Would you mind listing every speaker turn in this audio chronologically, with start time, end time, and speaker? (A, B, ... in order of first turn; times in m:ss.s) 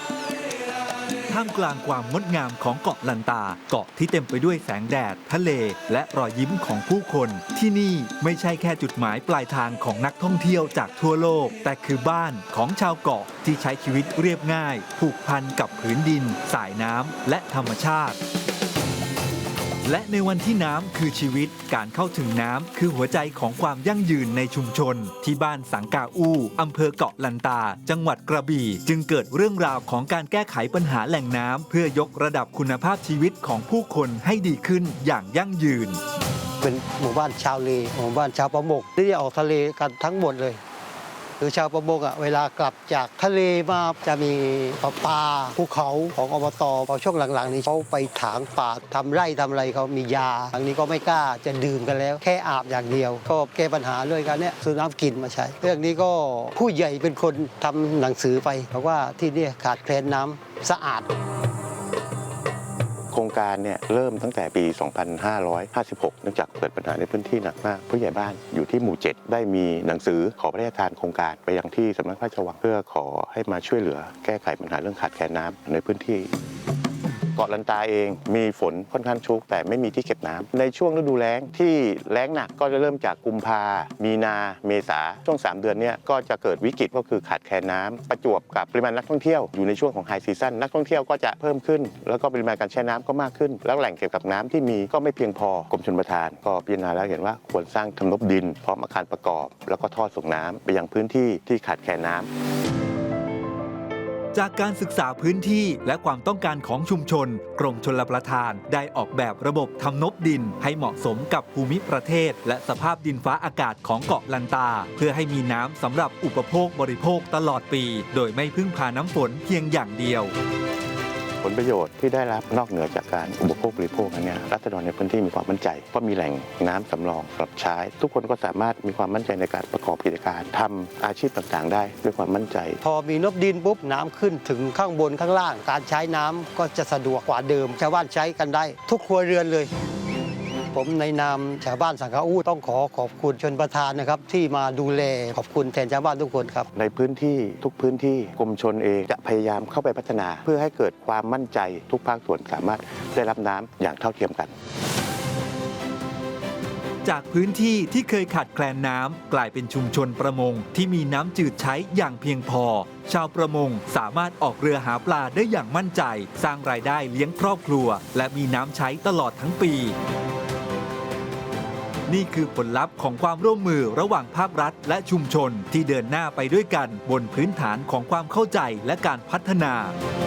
0:01.3-0:18.2 A
0:19.8-0:36.0 A
0:36.6-0:40.6 B
0:41.4-1:01.1 B
1:03.1-1:16.3 C
1:17.4-1:42.3 C
1:44.3-2:00.3 A
2:01.4-2:12.8 C
2:12.8-2:19.7 B
2:20.7-2:26.7 B
2:26.8-2:34.5 C
2:37.0-2:50.0 A
2:52.1-3:00.0 A